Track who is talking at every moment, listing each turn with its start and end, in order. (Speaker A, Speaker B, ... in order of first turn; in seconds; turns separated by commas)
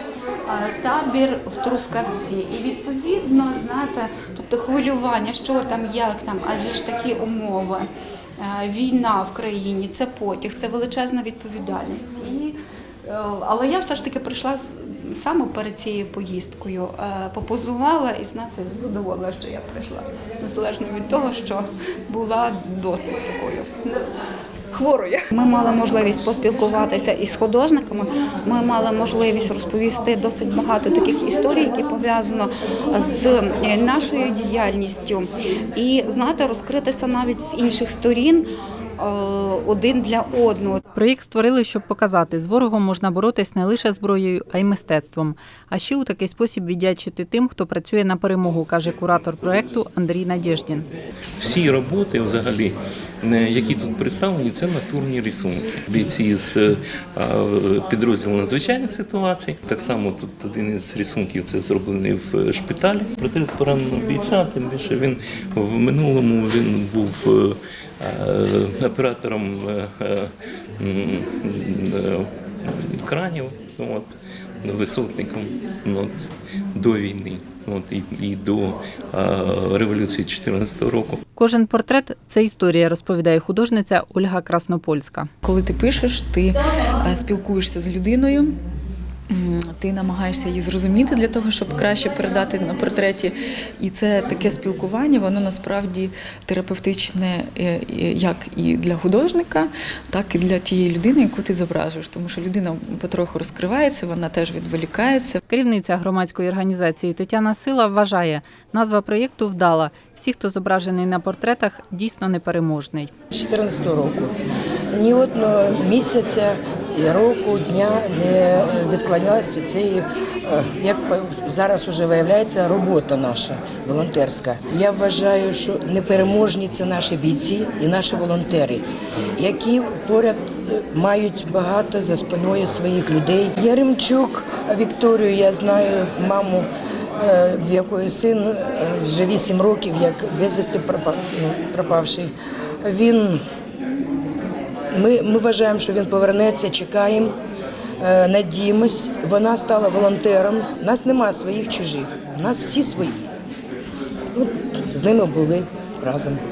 Speaker A: 0.5-24.1, Speaker A: 24.7-38.5, Speaker A: 39.0-40.8, Speaker B: 40.9-50.9, Speaker C: 51.4-74.1, Speaker C: 74.6-81.2, Speaker B: 81.3-85.3, Speaker D: 85.4-88.6, Speaker D: 89.3-105.4, Speaker B: 105.5-113.1, Speaker E: 113.3-114.3, Speaker E: 114.9-128.8, Speaker E: 129.3-143.4, Speaker E: 144.9-147.3, Speaker E: 148.0-153.2, Speaker E: 154.3-156.4